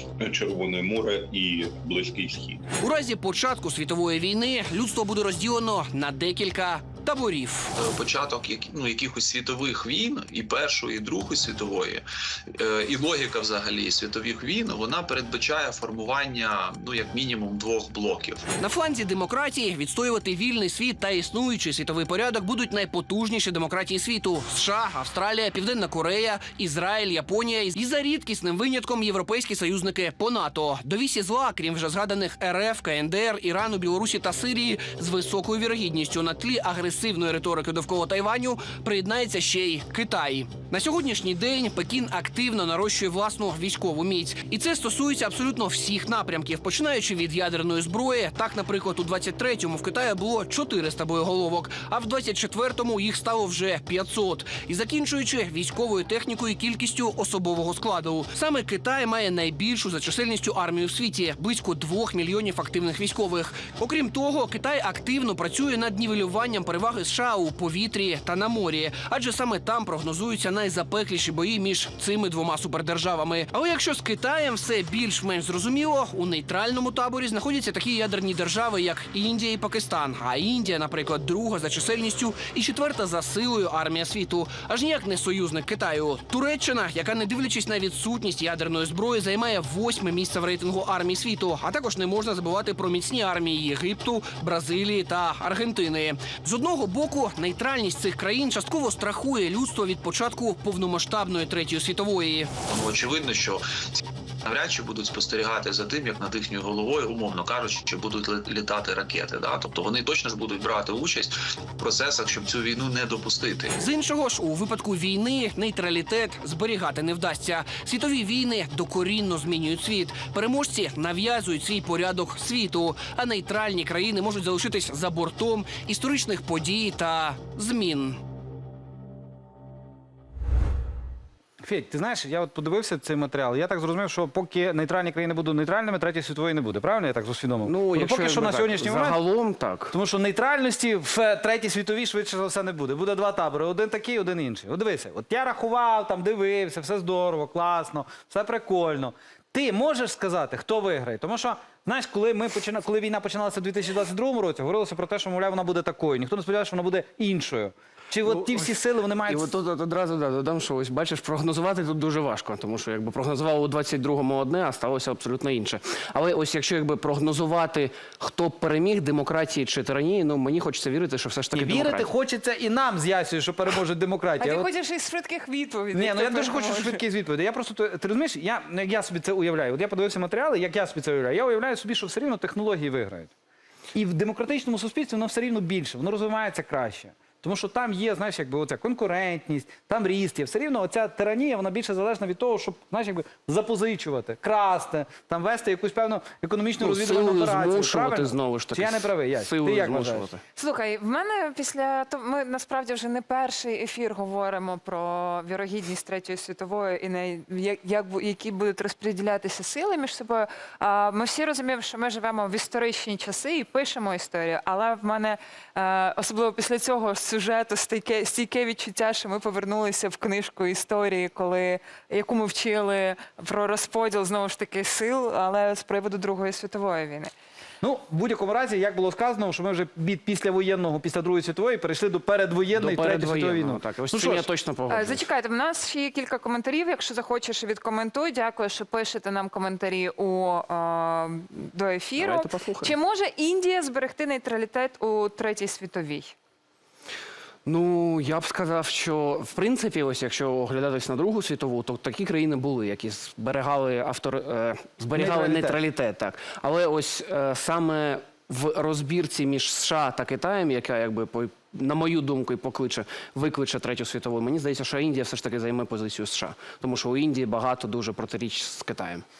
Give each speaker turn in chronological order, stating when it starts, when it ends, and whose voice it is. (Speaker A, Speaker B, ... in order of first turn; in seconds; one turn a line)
Speaker A: 0.2-2.6
Speaker B: 2.8-7.7
Speaker C: 7.8-18.4
Speaker B: 18.6-102.5
Speaker C: 102.7-103.6
Speaker C: 104.5-113.8
Speaker B: 113.8-128.2
Speaker D: 131.6-139.2
Speaker B: 137.6-139.9
Speaker D: 139.9-159.5
Speaker B: 158.2-158.7
Speaker B: 159.2-172.1
Speaker D: 171.5-174.7
Speaker E: 174.4-177.0
Speaker D: 175.9-183.3
Speaker D: 183.9-200.3
Speaker B: 196.8-200.4
Speaker E: 200.6-227.3
Speaker D: 227.8-234.5
Speaker B: 232.7-235.2
Speaker E: 234.9-246.3
Speaker B: 242.2-242.9
Speaker B: 247.7-269.2
Speaker D: 255.1-255.8